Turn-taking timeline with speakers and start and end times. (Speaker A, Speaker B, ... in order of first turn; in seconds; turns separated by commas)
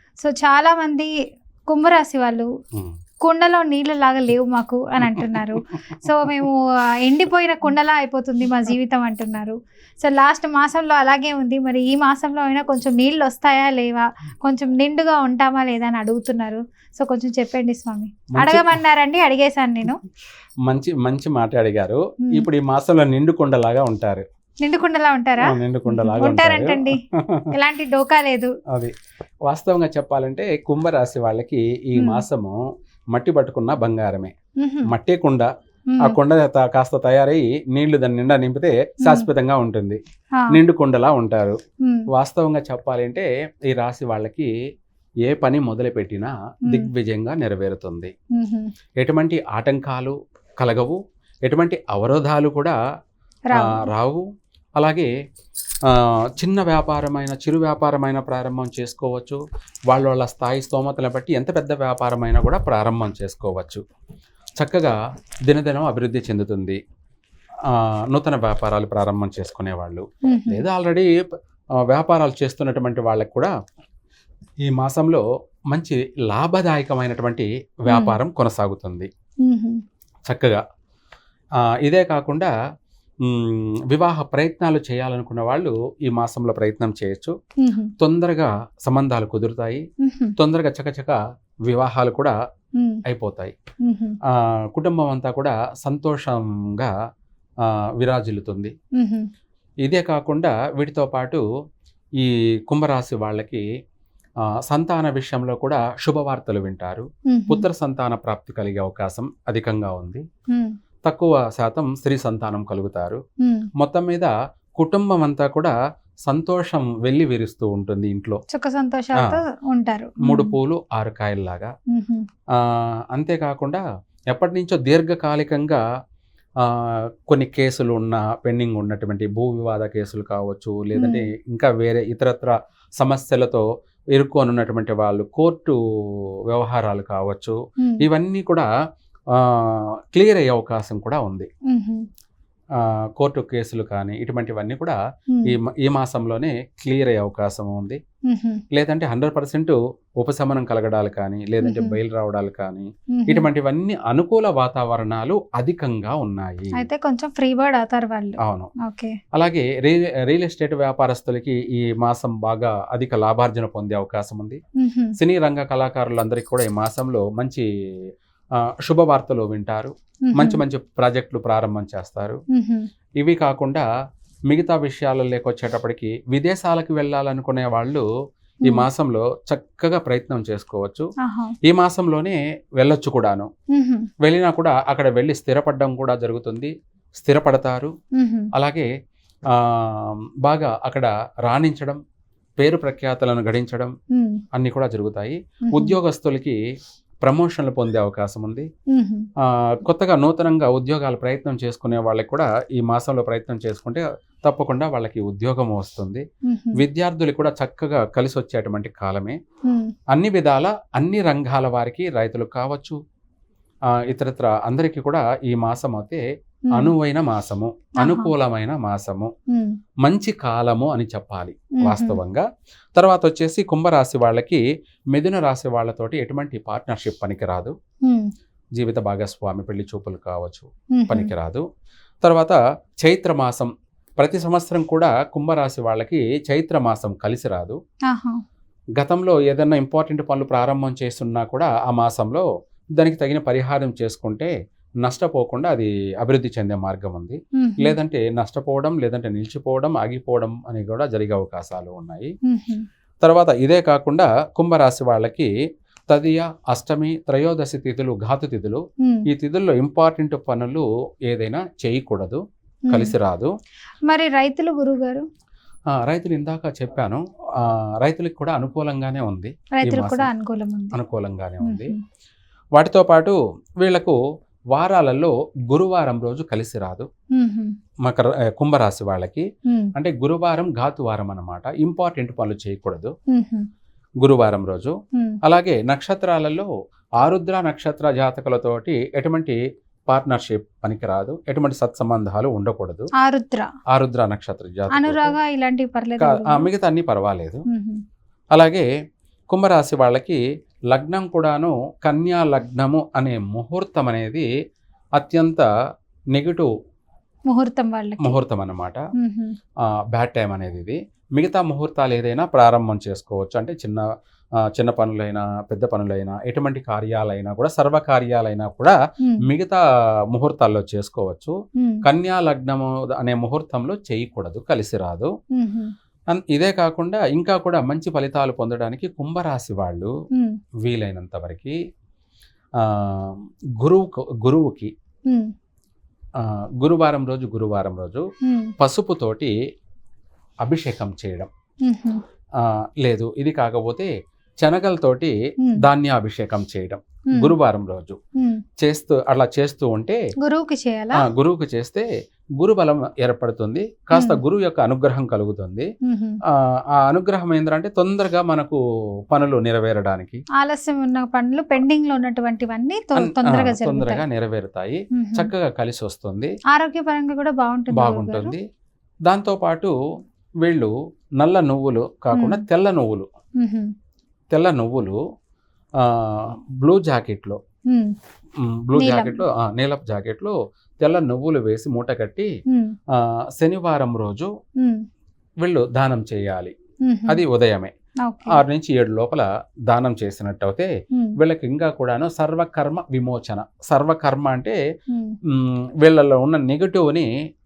Speaker A: 0.2-1.1, Speaker A: 1.7-2.5, Speaker A: 3.2-20.0, Speaker B: 5.0-5.5, Speaker B: 18.3-18.8, Speaker B: 20.7-24.3, Speaker A: 24.6-27.0, Speaker B: 25.4-27.5, Speaker A: 27.5-28.5, Speaker B: 29.5-32.6, Speaker A: 32.0-32.2, Speaker B: 33.1-34.3, Speaker A: 34.6-34.9, Speaker B: 34.9-35.5, Speaker A: 35.9-36.2, Speaker B: 36.0-40.0, Speaker B: 40.5-41.6, Speaker B: 42.1-44.5, Speaker B: 45.3-48.1, Speaker A: 48.4-48.7, Speaker B: 49.0-52.8, Speaker A: 53.5-53.9, Speaker B: 53.5-54.2, Speaker B: 54.8-55.1, Speaker B: 55.9-63.8, Speaker B: 64.6-66.8, Speaker B: 67.7-71.1, Speaker A: 70.3-70.7, Speaker B: 71.8-73.5, Speaker B: 74.6-79.1, Speaker A: 77.9-78.2, Speaker A: 79.4-79.8, Speaker B: 80.3-80.6, Speaker B: 81.8-82.5, Speaker B: 83.2-87.3, Speaker A: 87.6-87.9, Speaker B: 88.0-89.8, Speaker A: 90.0-90.3, Speaker B: 90.4-92.4, Speaker B: 93.0-93.6, Speaker A: 93.8-94.2, Speaker B: 94.3-96.9, Speaker B: 97.7-98.8, Speaker A: 99.0-99.3, Speaker B: 99.8-101.4, Speaker B: 102.2-103.7, Speaker B: 104.7-110.2, Speaker A: 107.3-107.7, Speaker B: 111.0-113.2, Speaker A: 113.4-113.7, Speaker B: 113.8-115.7, Speaker B: 116.3-118.4, Speaker A: 118.5-120.5, Speaker B: 120.2-121.7, Speaker A: 121.9-122.3, Speaker B: 122.6-125.8, Speaker B: 126.6-138.7, Speaker A: 131.0-131.3, Speaker B: 139.3-141.5, Speaker A: 141.7-142.1, Speaker B: 142.8-148.0, Speaker A: 148.3-148.6, Speaker B: 148.7-156.7, Speaker A: 151.6-152.0, Speaker A: 153.2-153.5, Speaker A: 156.8-159.2, Speaker B: 158.4-158.7, Speaker B: 159.3-164.6, Speaker A: 164.8-165.1, Speaker B: 165.2-167.7, Speaker B: 168.8-172.4, Speaker A: 170.3-170.6, Speaker A: 172.5-172.9, Speaker B: 173.2-173.9, Speaker B: 174.5-178.1, Speaker B: 178.7-181.1, Speaker A: 181.2-181.5, Speaker B: 181.7-183.5, Speaker A: 183.7-184.1, Speaker B: 184.2-187.9, Speaker A: 188.2-188.5, Speaker B: 188.5-188.9, Speaker B: 189.5-192.0, Speaker B: 192.6-193.9, Speaker A: 194.1-194.4, Speaker B: 194.5-196.6, Speaker A: 195.7-196.0, Speaker B: 197.2-198.7, Speaker A: 198.9-199.3, Speaker B: 199.4-209.4, Speaker A: 206.5-206.8, Speaker A: 209.7-209.9, Speaker B: 210.1-213.0, Speaker B: 214.0-216.2, Speaker B: 216.7-219.3, Speaker A: 218.0-218.3, Speaker B: 220.1-222.4, Speaker A: 221.8-222.2, Speaker B: 223.0-224.6, Speaker B: 225.1-227.7, Speaker A: 228.1-228.3, Speaker B: 228.8-231.7, Speaker A: 231.0-231.3, Speaker B: 232.2-237.8, Speaker A: 238.1-238.4, Speaker B: 239.0-242.5, Speaker B: 243.0-244.5, Speaker B: 245.0-252.3, Speaker A: 247.6-248.0, Speaker A: 252.5-252.9, Speaker B: 253.2-255.5, Speaker B: 256.1-262.4, Speaker A: 262.9-263.1, Speaker B: 262.9-263.5, Speaker A: 264.1-265.2, Speaker B: 265.9-270.3, Speaker A: 269.8-271.0, Speaker B: 270.9-271.9, Speaker A: 271.6-272.0, Speaker B: 272.8-274.2, Speaker B: 274.7-277.1, Speaker A: 277.4-277.7, Speaker B: 278.1-283.1, Speaker A: 279.7-279.9, Speaker A: 283.3-283.7, Speaker B: 284.2-286.7, Speaker B: 287.2-289.6, Speaker B: 290.1-293.1, Speaker A: 293.2-293.7, Speaker B: 293.9-295.4, Speaker A: 294.9-296.7, Speaker B: 296.2-297.6, Speaker A: 297.7-298.0, Speaker B: 298.6-298.9, Speaker B: 299.5-300.4, Speaker B: 300.9-304.5, Speaker B: 305.2-305.7, Speaker B: 306.4-306.7, Speaker A: 307.5-308.4, Speaker B: 308.2-309.0, Speaker A: 309.2-309.6, Speaker B: 310.1-314.0, Speaker B: 314.8-319.8, Speaker B: 320.3-325.3, Speaker A: 325.6-325.9, Speaker B: 326.3-330.1, Speaker B: 330.8-331.8, Speaker B: 332.8-334.9, Speaker A: 335.3-335.5, Speaker B: 336.4-338.2, Speaker A: 338.4-338.7, Speaker B: 338.8-339.5, Speaker B: 340.6-341.5, Speaker A: 341.8-342.2, Speaker B: 342.6-348.2, Speaker B: 348.8-350.2, Speaker A: 350.4-351.2, Speaker B: 351.1-352.1, Speaker B: 352.6-355.9, Speaker A: 356.1-356.4, Speaker B: 356.5-358.8, Speaker B: 359.3-360.4, Speaker A: 360.6-364.2, Speaker B: 363.1-366.5, Speaker A: 365.2-365.5, Speaker A: 366.7-368.6, Speaker B: 367.9-368.7, Speaker B: 369.3-369.9, Speaker B: 370.6-373.3, Speaker A: 372.3-372.6, Speaker A: 373.6-373.9, Speaker B: 374.5-375.2, Speaker B: 376.0-377.6, Speaker A: 377.9-378.1, Speaker B: 378.6-382.5, Speaker A: 379.0-379.4, Speaker A: 382.7-383.0, Speaker B: 383.1-384.5, Speaker A: 384.8-385.1, Speaker B: 385.6-386.7, Speaker A: 387.0-387.4, Speaker B: 387.3-387.9, Speaker A: 388.3-388.6, Speaker B: 388.5-394.8, Speaker A: 395.1-395.4, Speaker B: 395.5-397.3